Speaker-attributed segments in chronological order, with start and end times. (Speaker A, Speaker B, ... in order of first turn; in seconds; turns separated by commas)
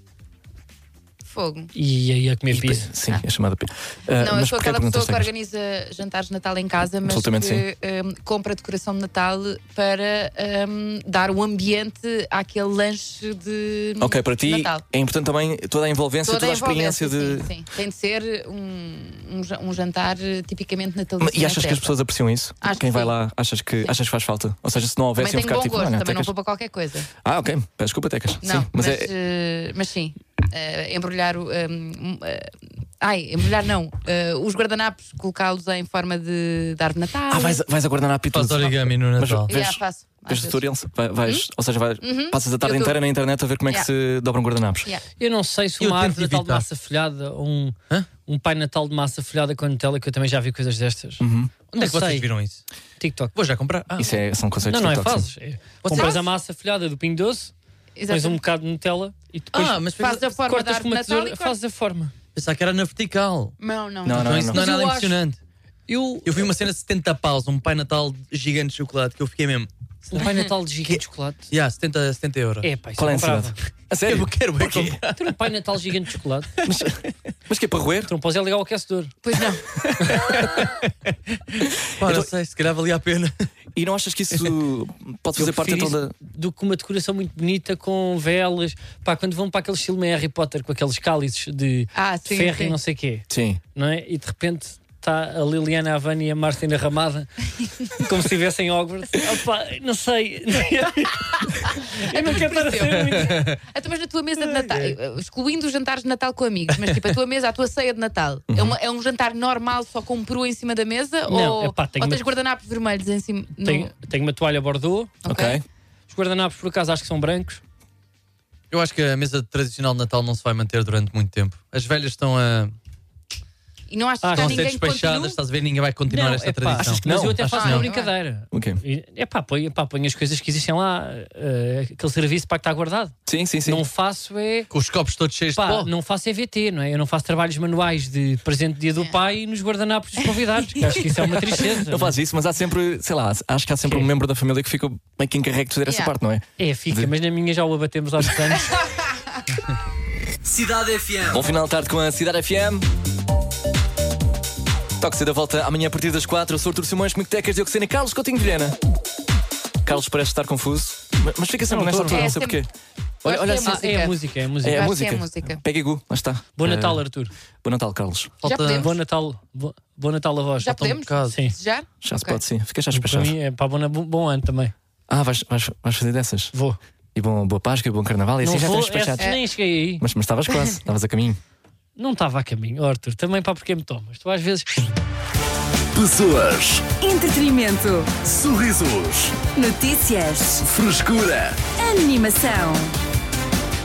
Speaker A: 1.2-1.7, Speaker B: 1.7-2.9, Speaker C: 2.5-5.3, Speaker A: 4.2-14.8, Speaker C: 7.0-7.6, Speaker C: 14.0-17.5, Speaker A: 16.2-21.9, Speaker C: 21.2-26.3, Speaker A: 22.6-23.1, Speaker A: 25.2-27.1, Speaker C: 27.2-29.1, Speaker A: 28.4-37.6, Speaker C: 37.3-44.9, Speaker D: 38.3-39.5, Speaker A: 39.5-40.6, Speaker A: 42.0-43.0, Speaker B: 45.2-52.3, Speaker D: 45.8-46.6, Speaker C: 51.2-51.5, Speaker D: 51.7-52.6, Speaker B: 53.0-53.3, Speaker D: 53.4-54.1, Speaker C: 54.0-55.3, Speaker B: 54.6-57.5, Speaker D: 55.8-56.2, Speaker A: 55.9-56.3, Speaker A: 58.0-58.4, Speaker B: 58.1-59.9, Speaker D: 59.5-60.3, Speaker A: 60.0-61.5, Speaker B: 60.4-62.1, Speaker D: 62.4-65.4, Speaker A: 63.6-64.3, Speaker C: 64.0-64.6, Speaker B: 64.5-65.2, Speaker B: 65.9-66.3, Speaker D: 66.2-71.0, Speaker B: 70.1-71.5, Speaker D: 71.5-72.7, Speaker B: 72.6-73.6, Speaker C: 73.0-75.0, Speaker D: 74.1-75.3, Speaker B: 75.2-76.5, Speaker D: 76.6-76.8, Speaker C: 76.6-78.1, Speaker B: 78.1-79.2, Speaker A: 79.2-79.8, Speaker D: 79.7-80.9, Speaker B: 80.0-80.6, Speaker D: 81.5-83.4, Speaker C: 82.0-82.3, Speaker C: 83.8-86.1, Speaker B: 85.4-103.5, Speaker A: 92.0-92.8, Speaker C: 93.3-93.6, Speaker A: 101.9-113.9, Speaker D: 102.6-103.6, Speaker D: 104.4-105.0, Speaker D: 106.7-107.1, Speaker C: 108.5-108.8, Speaker B: 111.3-112.2, Speaker B: 113.6-115.1, Speaker A: 115.2-115.6, Speaker C: 115.2-115.7, Speaker B: 116.1-117.6, Speaker D: 118.7-122.8, Speaker A: 123.9-125.4, Speaker B: 124.2-124.7, Speaker D: 124.3-127.9, Speaker B: 126.1-134.7, Speaker C: 127.0-127.4, Speaker A: 127.5-128.1, Speaker C: 128.5-128.8, Speaker C: 133.3-133.8, Speaker D: 134.7-135.9, Speaker B: 135.5-142.2, Speaker A: 140.8-141.6, Speaker C: 141.7-147.1, Speaker A: 145.9-146.1, Speaker B: 146.6-148.8, Speaker E: 150.4-151.4, Speaker C: 151.3-152.9, Speaker C: 155.0-158.8, Speaker C: 159.8-162.7, Speaker B: 161.7-162.4, Speaker A: 162.1-162.6, Speaker C: 163.2-164.1, Speaker A: 163.2-165.6, Speaker B: 163.6-164.9, Speaker C: 164.6-167.0, Speaker B: 166.6-167.3, Speaker C: 167.6-168.3, Speaker D: 168.4-168.9, Speaker A: 168.4-168.9, Speaker B: 168.8-171.5, Speaker A: 170.6-172.4, Speaker D: 170.8-171.3, Speaker C: 172.0-173.3, Speaker B: 172.9-174.7, Speaker C: 175.1-176.5, Speaker B: 176.5-176.8, Speaker C: 177.2-179.4, Speaker B: 178.4-180.0, Speaker C: 180.0-181.4, Speaker B: 182.0-184.8, Speaker E: 185.9-186.9, Speaker F: 187.0-188.1, Speaker E: 188.2-189.4, Speaker F: 189.5-190.6, Speaker E: 190.6-191.6, Speaker F: 191.8-192.9